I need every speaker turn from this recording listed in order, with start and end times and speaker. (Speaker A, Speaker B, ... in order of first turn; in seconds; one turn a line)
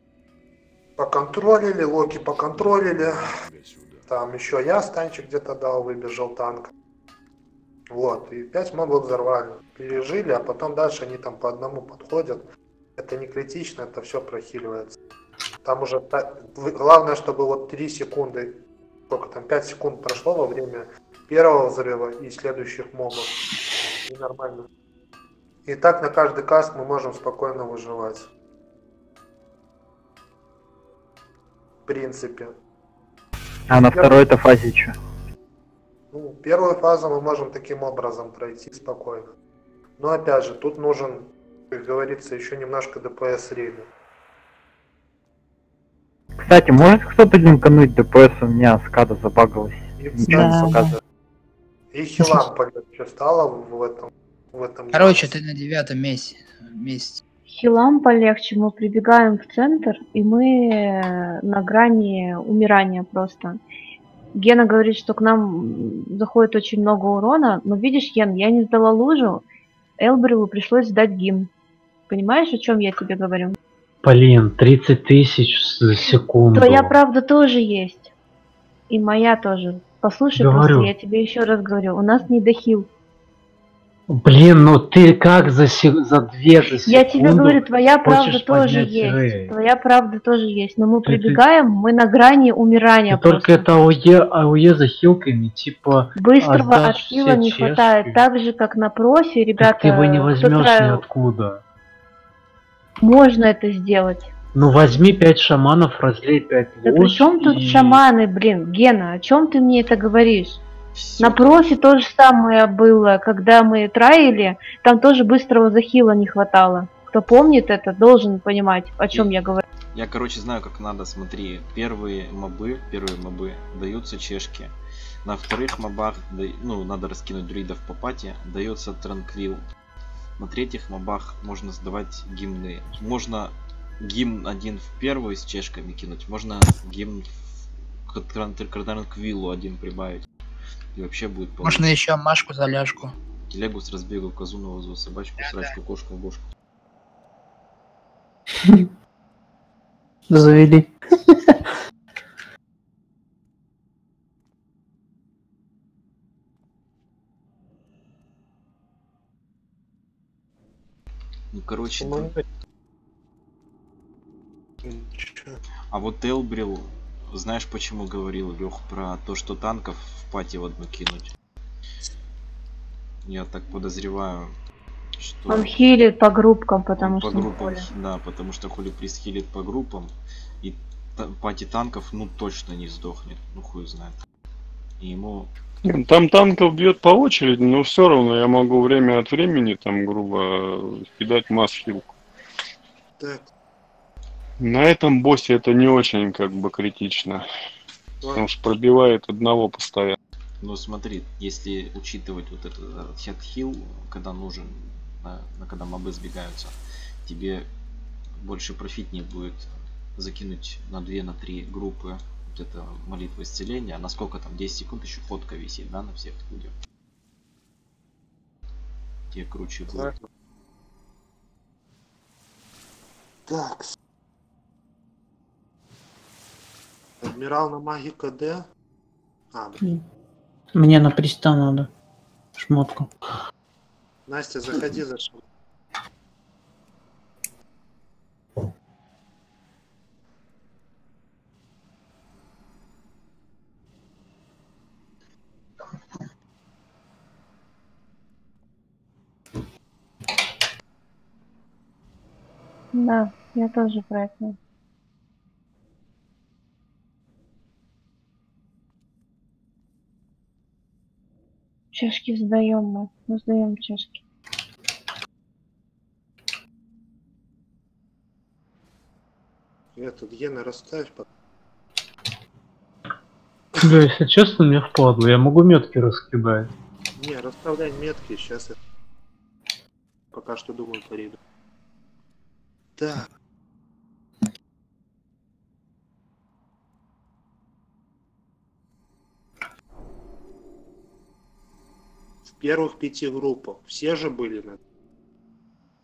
Speaker A: 1.0-3.2
Speaker A: 4.1-6.7
Speaker A: 7.9-12.4
Speaker A: 13.0-14.9
Speaker A: 15.6-23.3
Speaker A: 24.1-24.6
Speaker A: 25.6-28.3
Speaker A: 31.9-32.5
Speaker B: 33.7-34.9
Speaker A: 33.9-34.2
Speaker A: 36.1-39.3
Speaker A: 40.0-43.9
Speaker B: 46.4-50.9
Speaker A: 50.0-50.9
Speaker C: 50.3-50.8
Speaker A: 51.9-55.3
Speaker D: 54.9-57.2
Speaker E: 57.5-63.6
Speaker E: 64.3-69.4
Speaker E: 70.0-71.5
Speaker E: 72.1-73.6
Speaker F: 74.0-76.9
Speaker E: 76.5-78.1
Speaker E: 78.9-82.9
Speaker F: 80.3-80.9
Speaker F: 84.1-89.5
Speaker E: 86.8-93.6
Speaker F: 91.0-91.4
Speaker F: 93.1-98.2
Speaker E: 96.2-101.0
Speaker F: 99.6-101.6
Speaker E: 103.0-104.3
Speaker F: 104.5-108.0
Speaker E: 106.8-110.6
Speaker G: 110.9-111.7
Speaker E: 111.2-119.6
Speaker G: 119.9-129.6
Speaker G: 130.4-140.2
Speaker G: 140.9-141.9
Speaker D: 141.6-143.1
Speaker G: 143.5-146.4
Speaker D: 145.4-145.7
Speaker C: 150.3-151.3
Speaker G: 161.5-162.3
Speaker A: 162.0-162.4
Speaker A: 164.8-165.6
Speaker G: 165.9-171.3
Speaker G: 173.2-174.5
Speaker G: 175.2-175.7
Speaker E: 175.5-177.9
Speaker G: 177.0-184.2
Speaker G: 185.0-185.5
Speaker H: 185.8-192.1
Speaker A: 193.2-193.5
Speaker H: 194.6-197.4
Speaker H: 198.3-200.2
Speaker G: 200.6-207.7
Speaker G: 208.4-216.7
Speaker G: 219.3-220.1
Speaker A: 219.9-220.2
Speaker A: 223.5-223.9
Speaker A: 227.2-228.7
Speaker A: 229.5-229.8
Speaker C: 230.7-231.9
Speaker C: 232.6-233.1
Speaker A: 234.3-235.4
Speaker E: 252.9-254.6
Speaker E: 261.9-264.2
Speaker A: 269.9-271.2
Speaker F: 273.8-276.7
Speaker A: 277.1-278.8
Speaker A: 280.3-281.4
Speaker A: 283.0-283.3
Speaker A: 292.4-294.8